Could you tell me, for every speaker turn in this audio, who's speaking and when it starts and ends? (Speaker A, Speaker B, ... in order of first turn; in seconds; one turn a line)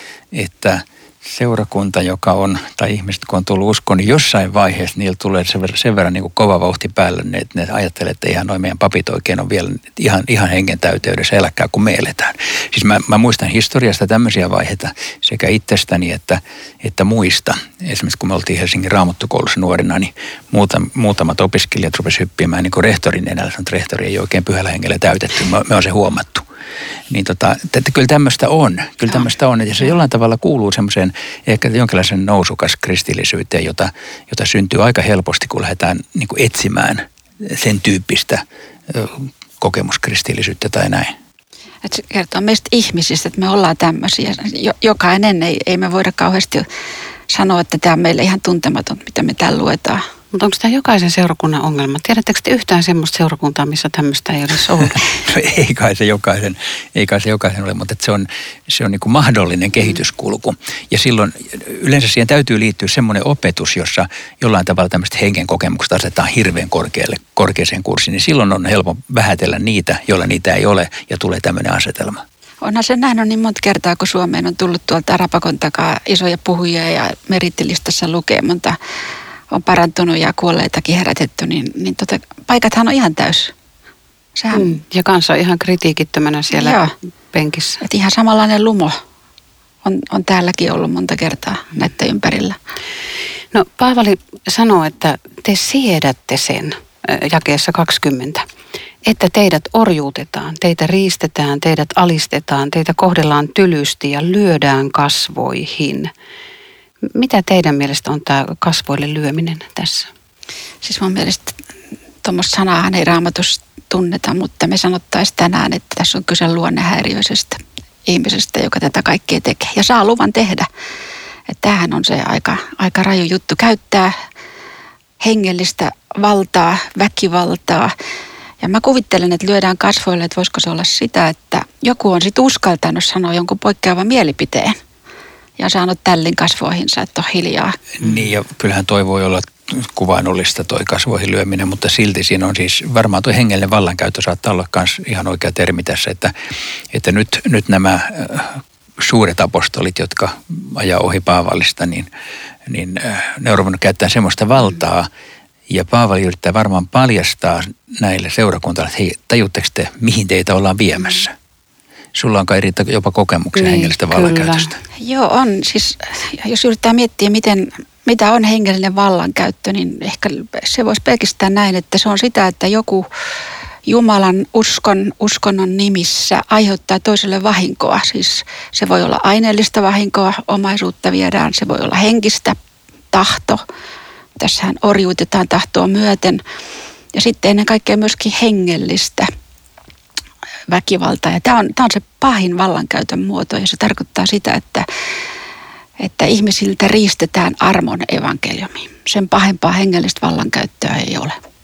Speaker A: 0.3-26.4
Speaker A: 27.1-41.1
Speaker B: 41.8-46.6
Speaker B: 47.3-50.0
Speaker C: 50.3-55.1
Speaker A: 54.8-72.2
Speaker B: 72.6-78.8
Speaker B: 79.5-83.5
Speaker B: 84.4-84.8
Speaker C: 84.5-87.8
Speaker B: 86.5-86.9
Speaker B: 87.8-89.0
Speaker B: 89.8-92.6
Speaker C: 93.5-98.4
Speaker C: 99.0-106.1
Speaker C: 107.1-110.1
Speaker B: 110.8-111.6
Speaker B: 112.2-120.7
Speaker B: 121.5-124.1
Speaker B: 125.2-127.9
Speaker B: 128.6-134.8
Speaker B: 135.6-137.8
Speaker A: 138.0-146.3
Speaker A: 146.9-152.1
Speaker A: 152.7-155.1
Speaker A: 155.7-161.3
Speaker A: 162.1-164.8
Speaker C: 163.5-164.7
Speaker B: 165.0-173.1
Speaker B: 173.8-182.6
Speaker B: 183.1-183.6
Speaker B: 184.4-186.4
Speaker B: 187.1-189.3
Speaker B: 190.7-194.9
Speaker B: 196.0-201.4